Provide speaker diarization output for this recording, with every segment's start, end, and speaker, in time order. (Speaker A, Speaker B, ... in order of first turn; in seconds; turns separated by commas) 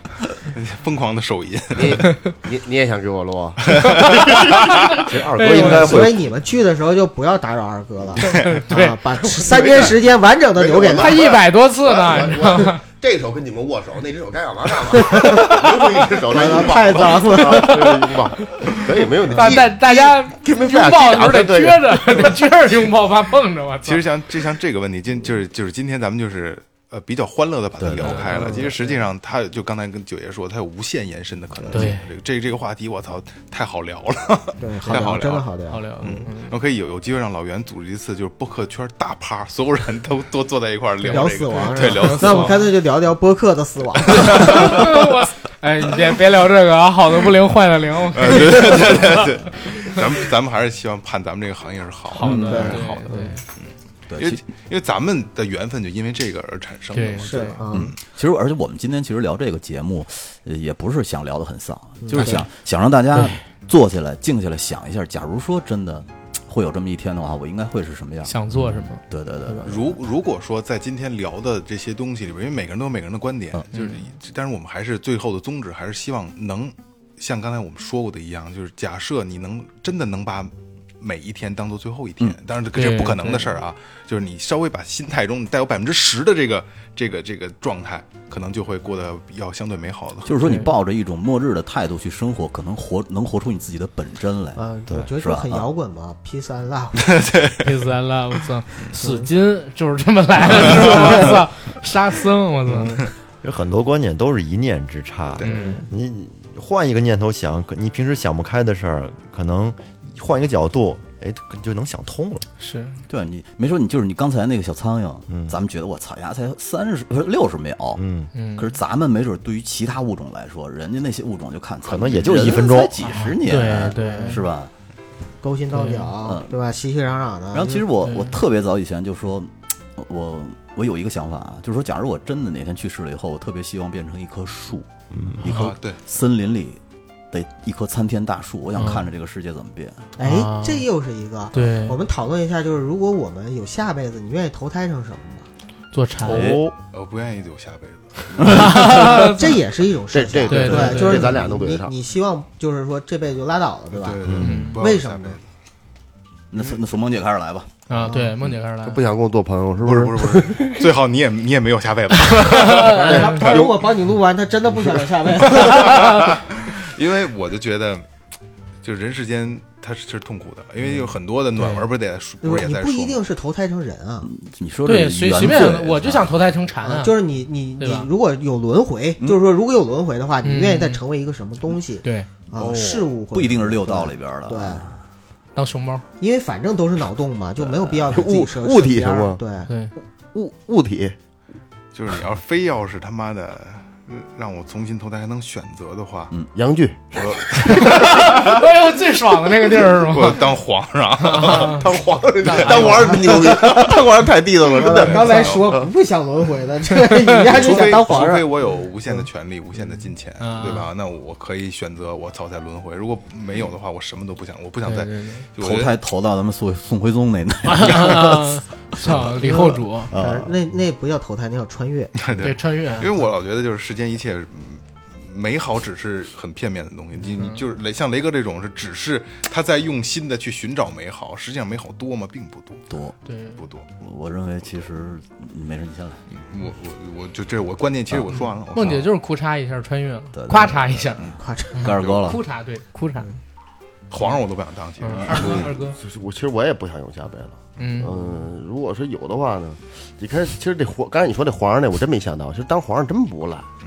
Speaker A: 0.5-2.0, Speaker B: 1.7-3.8, Speaker A: 3.7-4.7, Speaker C: 3.8-6.0, Speaker D: 5.0-6.3, Speaker E: 5.5-11.3, Speaker C: 8.2-9.6, Speaker B: 9.6-9.9, Speaker B: 10.6-22.4, Speaker C: 10.9-12.8, Speaker E: 15.1-15.6, Speaker E: 16.3-18.0, Speaker C: 17.4-17.9, Speaker C: 19.3-24.0, Speaker A: 23.8-35.5, Speaker F: 27.8-28.3, Speaker C: 28.0-28.9, Speaker E: 28.3-28.7, Speaker C: 31.7-32.0, Speaker E: 34.6-36.3, Speaker C: 34.8-35.2, Speaker C: 35.7-36.6, Speaker A: 36.0-42.6, Speaker C: 41.0-42.7, Speaker E: 41.0-44.9, Speaker A: 44.1-44.7, Speaker C: 44.3-50.0, Speaker A: 48.1-53.1, Speaker C: 52.1-53.4, Speaker F: 52.2-52.9, Speaker E: 52.5-53.3, Speaker A: 53.6-58.0, Speaker F: 54.1-54.4, Speaker C: 56.9-57.6, Speaker E: 57.2-57.9, Speaker F: 57.7-70.0, Speaker E: 62.0-62.4, Speaker C: 62.1-62.4, Speaker C: 63.1-63.4, Speaker C: 68.2-69.7, Speaker A: 69.6-90.3, Speaker C: 73.7-74.0, Speaker C: 82.7-83.5, Speaker F: 90.2-95.7, Speaker C: 90.4-90.7, Speaker E: 94.5-97.3, Speaker A: 97.1-97.5, Speaker C: 97.6-103.1, Speaker E: 99.0-99.3, Speaker E: 100.8-101.3, Speaker D: 103.4-112.5, Speaker C: 105.4-105.8, Speaker E: 105.5-105.8, Speaker C: 112.6-113.0, Speaker F: 113.1-118.0, Speaker D: 115.3-115.5, Speaker D: 118.0-118.3, Speaker C: 118.3-118.7, Speaker F: 118.5-124.7, Speaker D: 121.8-123.0, Speaker C: 123.0-124.4, Speaker E: 123.9-124.4, Speaker E: 125.4-127.8, Speaker C: 125.7-126.1, Speaker F: 126.2-126.5, Speaker F: 127.5-134.9, Speaker C: 128.0-128.3, Speaker F: 135.4-136.8, Speaker C: 135.4-135.7, Speaker A: 135.5-136.0, Speaker F: 137.3-140.0, Speaker C: 138.7-139.1, Speaker E: 140.2-145.5, Speaker C: 140.2-140.8, Speaker C: 141.5-142.0, Speaker C: 145.9-146.6, Speaker D: 146.2-146.7, Speaker A: 146.9-148.3, Speaker F: 148.3-148.9, Speaker C: 148.4-149.6, Speaker E: 148.6-155.4, Speaker B: 150.1-151.9, Speaker C: 150.5-151.3, Speaker A: 153.9-155.4, Speaker D: 154.2-154.6, Speaker C: 154.4-154.8, Speaker F: 156.5-157.7, Speaker C: 157.9-159.0, Speaker E: 158.0-158.3, Speaker B: 158.8-160.8, Speaker A: 159.8-163.7, Speaker C: 162.3-163.4, Speaker E: 162.8-166.3, Speaker B: 163.1-163.8, Speaker A: 165.6-168.0, Speaker C: 165.7-166.2, Speaker A: 168.8-173.2, Speaker C: 171.6-171.8, Speaker E: 172.4-174.3, Speaker F: 174.2-176.3, Speaker C: 174.8-177.1, Speaker E: 176.8-184.8, Speaker C: 177.8-178.1, Speaker C: 180.4-181.0, Speaker C: 182.0-182.3, Speaker F: 182.6-185.0, Speaker C: 185.5-186.0, Speaker E: 186.2-189.7, Speaker B: 188.1-189.4, Speaker B: 190.3-191.2, Speaker A: 191.9-196.3, Speaker B: 196.5-197.8, Speaker A: 197.2-198.6, Speaker C: 197.7-200.4, Speaker A: 200.0-201.8, Speaker C: 201.2-201.9, Speaker B: 201.7-205.9, Speaker C: 202.4-203.2, Speaker E: 202.6-203.9, Speaker A: 202.7-203.0, Speaker E: 204.7-208.5, Speaker A: 204.9-205.8, Speaker A: 207.4-215.9, Speaker C: 210.4-210.9, Speaker C: 214.8-215.4, Speaker F: 215.6-220.5, Speaker C: 217.6-220.1, Speaker E: 219.4-222.2, Speaker A: 222.2-232.8, Speaker C: 222.4-223.1, Speaker F: 232.9-233.2, Speaker C: 233.3-233.6, Speaker A: 233.6-233.9, Speaker F: 234.0-236.2, Speaker A: 236.3-239.1, Speaker C: 238.7-243.3, Speaker F: 240.3-242.4, Speaker E: 241.4-242.0, Speaker A: 241.9-242.3, Speaker A: 244.1-245.4, Speaker C: 245.0-246.0, Speaker F: 245.1-245.5, Speaker B: 245.3-253.7, Speaker C: 247.8-248.1